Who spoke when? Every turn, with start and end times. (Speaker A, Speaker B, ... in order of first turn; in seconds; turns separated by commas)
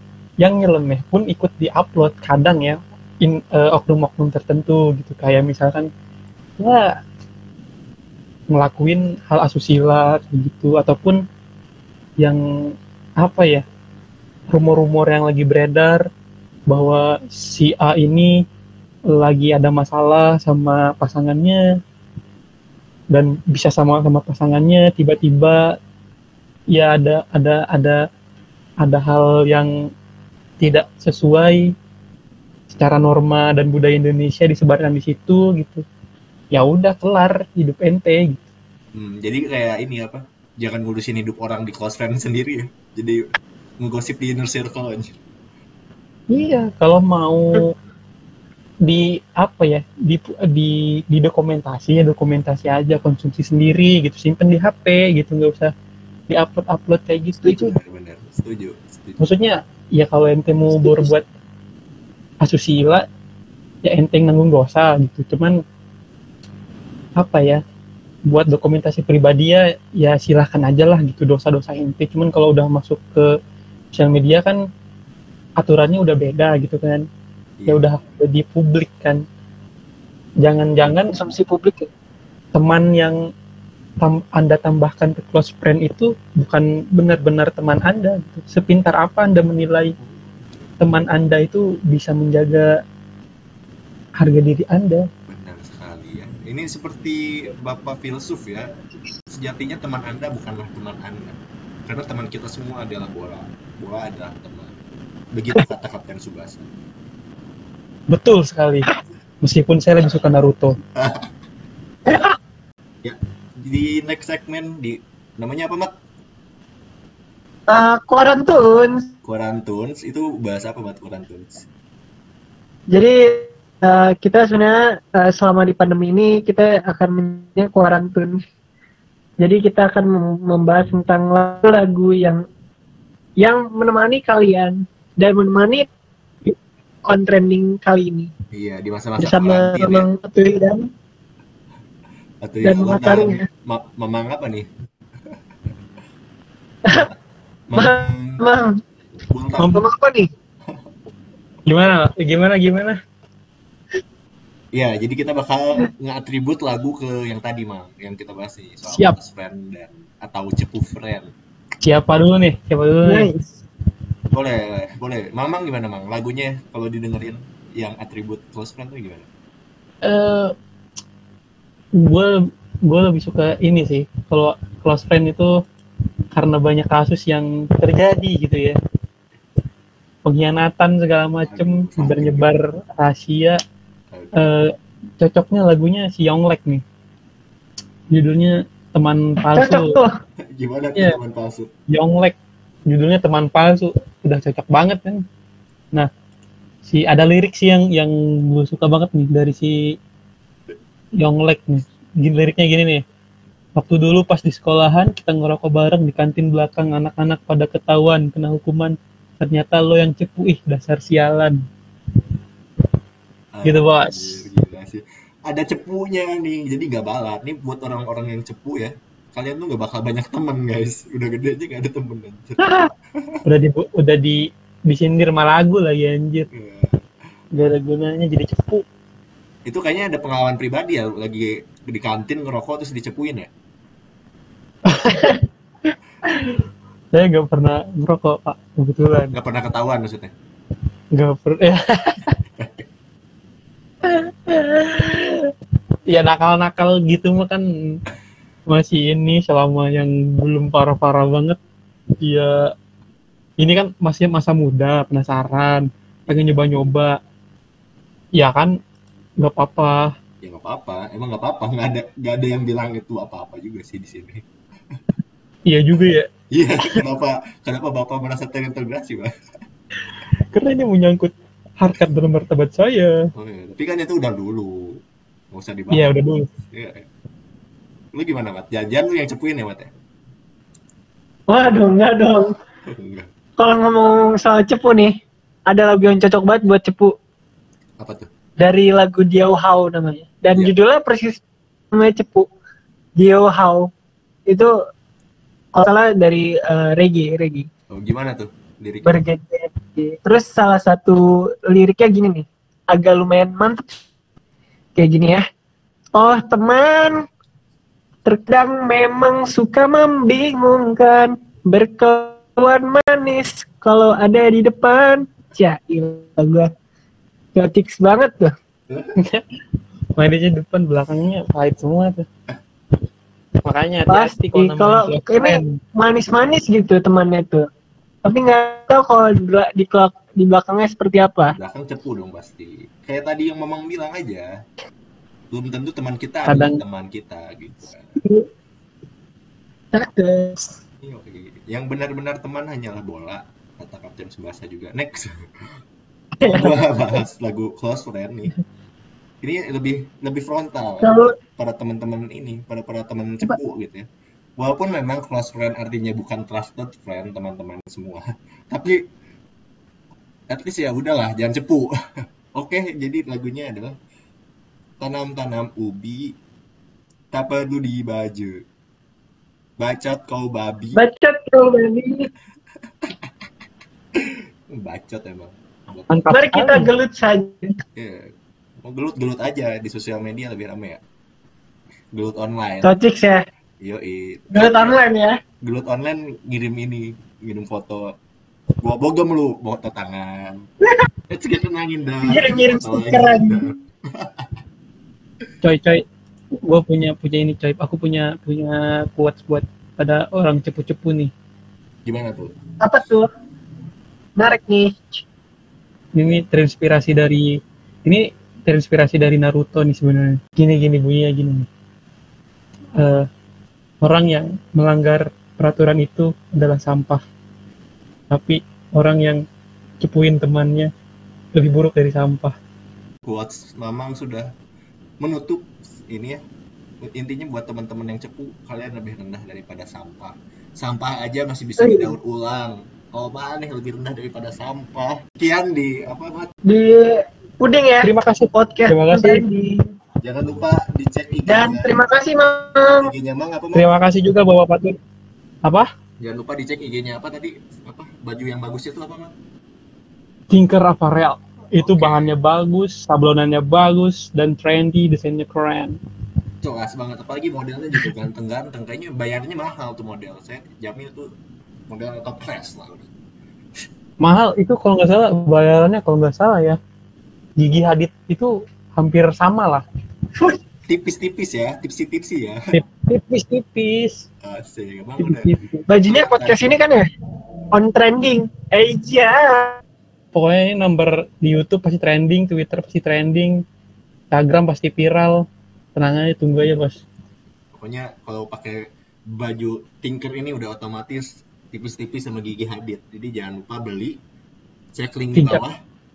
Speaker A: 0.4-5.9, Speaker A: 6.6-7.0, Speaker A: 8.5-11.2, Speaker A: 12.2-13.6, Speaker A: 14.5-16.1, Speaker A: 16.7-18.4, Speaker A: 19.1-21.6, Speaker A: 23.1-25.8, Speaker A: 26.7-28.0, Speaker A: 28.8-29.7, Speaker A: 30.6-31.7, Speaker A: 32.7-35.8, Speaker A: 36.5-38.5, Speaker B: 38.9-43.2, Speaker B: 43.8-45.2, Speaker A: 46.3-47.7, Speaker A: 48.8-55.7, Speaker A: 56.3-57.8, Speaker B: 57.5-59.3, Speaker A: 59.2-61.2, Speaker C: 60.8-61.1, Speaker A: 62.4-63.1, Speaker A: 63.8-65.6, Speaker A: 67.2-67.6, Speaker A: 68.3-73.3, Speaker A: 73.9-74.6, Speaker A: 75.6-77.0, Speaker B: 77.6-77.9, Speaker A: 77.7-79.2, Speaker A: 80.4-81.1, Speaker C: 81.1-81.9, Speaker A: 82.5-83.2, Speaker A: 84.0-89.9, Speaker A: 90.8-92.7, Speaker A: 94.2-95.0, Speaker B: 95.3-98.7, Speaker B: 99.3-104.8, Speaker B: 105.3-106.7, Speaker A: 108.1-108.9, Speaker A: 109.4-110.8, Speaker B: 111.0-111.3, Speaker C: 112.1-112.3, Speaker B: 113.0-115.9, Speaker C: 117.7-119.0, Speaker B: 119.2-121.7, Speaker C: 122.9-128.4, Speaker C: 129.4-132.4, Speaker C: 133.4-135.9, Speaker C: 137.1-138.3, Speaker B: 138.5-140.1, Speaker C: 139.2-140.9, Speaker B: 142.4-144.7, Speaker C: 142.6-143.4, Speaker B: 147.7-148.4, Speaker C: 147.8-148.8, Speaker B: 149.2-149.8, Speaker C: 149.6-150.3, Speaker A: 151.7-153.0, Speaker B: 154.7-161.3, Speaker A: 158.9-159.1, Speaker A: 161.8-163.3, Speaker C: 163.0-163.6, Speaker B: 164.3-169.3, Speaker A: 170.0-170.5, Speaker A: 172.0-175.5, Speaker A: 176.3-178.8, Speaker A: 180.2-183.6, Speaker B: 181.4-182.5, Speaker B: 184.1-184.4, Speaker A: 184.3-186.8, Speaker A: 188.1-190.0, Speaker C: 189.5-190.1, Speaker B: 190.5-191.7, Speaker A: 191.9-192.3, Speaker A: 192.9-195.2, Speaker A: 196.8-199.9, Speaker A: 201.2-203.0, Speaker A: 203.8-211.6, Speaker B: 213.5-223.4, Speaker A: 213.6-214.5, Speaker C: 222.6-222.9, Speaker A: 223.4-226.5, Speaker B: 226.5-227.1, Speaker A: 227.5-228.8, Speaker B: 229.7-233.5, Speaker A: 234.8-235.4, Speaker A: 236.2-236.6, Speaker A: 237.1-239.3, Speaker B: 239.3-240.3, Speaker A: 241.1-242.4, Speaker B: 242.6-242.8, Speaker A: 244.0-245.5, Speaker A: 246.1-248.0, Speaker A: 248.7-251.6, Speaker A: 252.2-252.7, Speaker A: 253.6-257.1, Speaker A: 258.4-258.8, Speaker A: 259.4-260.1, Speaker B: 260.4-265.0, Speaker A: 265.6-266.3, Speaker B: 266.5-269.3, Speaker A: 270.5-273.2, Speaker B: 273.3-275.0, Speaker B: 275.5-277.1, Speaker A: 275.9-276.5, Speaker B: 278.1-279.9, Speaker C: 281.5-282.5, Speaker B: 282.9-283.3, Speaker C: 283.6-285.1, Speaker C: 285.7-287.1, Speaker B: 288.0-288.3, Speaker C: 288.6-292.5, Speaker C: 293.1-293.9, Speaker C: 295.7-297.7, Speaker B: 297.9-299.2, Speaker C: 299.0-303.9, Speaker C: 304.9-305.4, Speaker C: 306.1-307.2, Speaker C: 308.2-316.7, Speaker C: 317.5-318.5, Speaker A: 319.2-319.4, Speaker A: 320.1-322.3, Speaker A: 323.6-325.8, Speaker C: 324.1-327.6, Speaker C: 328.2-331.6, Speaker B: 331.6-334.5, Speaker B: 335.5-338.2, Speaker A: 336.5-336.8, Speaker C: 338.2-338.4, Speaker C: 339.9-340.6, Speaker B: 341.0-345.8, Speaker C: 346.4-346.8, Speaker B: 346.4-348.5, Speaker B: 349.4-354.1, Speaker C: 351.0-351.3, Speaker B: 354.6-359.0, Speaker B: 360.5-361.9, Speaker B: 362.5-363.9, Speaker B: 365.0-366.4, Speaker B: 367.3-368.6, Speaker B: 369.8-371.0, Speaker C: 370.9-372.3, Speaker B: 374.1-376.3, Speaker A: 376.1-376.9, Speaker C: 376.3-377.8, Speaker B: 377.9-378.3, Speaker B: 378.8-381.0, Speaker B: 382.1-382.9, Speaker C: 382.8-383.4, Speaker B: 383.8-385.0, Speaker C: 384.5-385.3, Speaker B: 385.6-388.1, Speaker B: 388.8-390.7, Speaker B: 391.3-394.5, Speaker C: 392.3-393.6, Speaker A: 395.6-401.3, Speaker B: 402.1-402.6, Speaker C: 402.8-403.3, Speaker C: 404.4-405.2, Speaker A: 406.1-411.7, Speaker A: 413.0-413.3, Speaker A: 414.0-417.2, Speaker A: 418.3-419.4, Speaker A: 420.0-420.9, Speaker A: 421.5-422.5, Speaker B: 423.2-424.5, Speaker B: 425.2-426.4, Speaker B: 427.0-436.5, Speaker C: 431.8-432.1, Speaker C: 436.6-439.9, Speaker A: 438.0-439.4, Speaker B: 440.2-441.9, Speaker C: 441.5-443.1, Speaker B: 442.9-443.9, Speaker A: 443.7-445.0, Speaker B: 446.2-449.3, Speaker A: 450.5-456.0, Speaker B: 451.8-452.3, Speaker B: 456.6-461.3, Speaker B: 461.9-463.1, Speaker A: 464.2-466.8, Speaker A: 467.6-469.8, Speaker B: 470.9-472.7, Speaker A: 472.7-474.2, Speaker B: 474.4-476.8, Speaker A: 475.2-475.8, Speaker C: 475.9-477.1, Speaker C: 477.7-479.8, Speaker A: 480.3-483.6, Speaker A: 484.3-487.0, Speaker B: 487.7-494.2, Speaker B: 494.9-495.8, Speaker A: 495.3-495.6